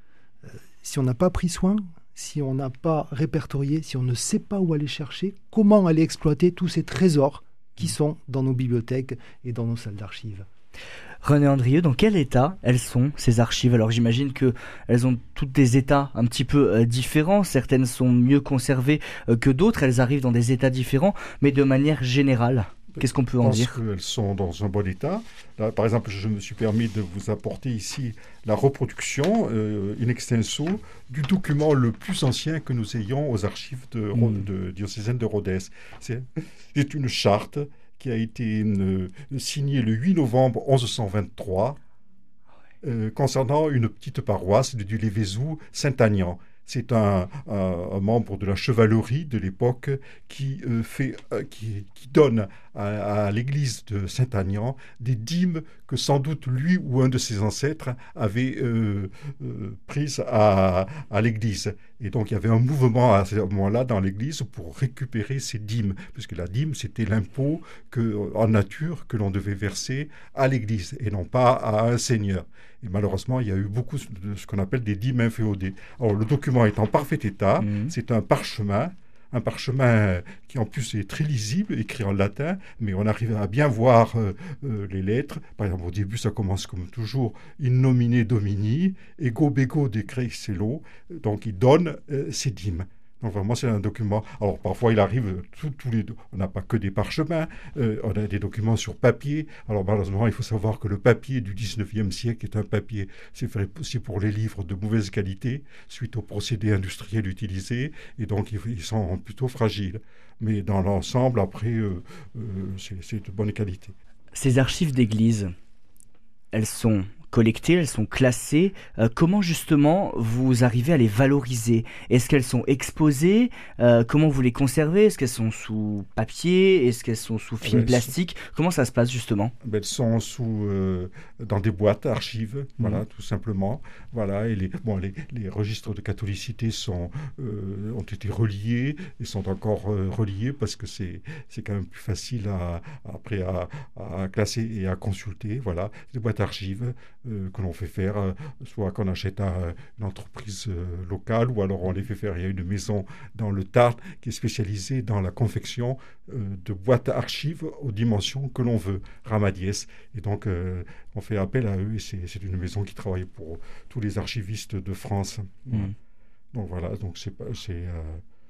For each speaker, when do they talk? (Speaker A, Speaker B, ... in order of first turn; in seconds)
Speaker A: 0.4-10.5
Speaker B: 11.2-23.8, 34.1-34.4, 77.6-77.9, 114.3-115.5, 116.5-129.5
Speaker C: 22.9-41.8, 42.8-113.9, 127.6-128.1, 129.6-165.9, 166.5-168.2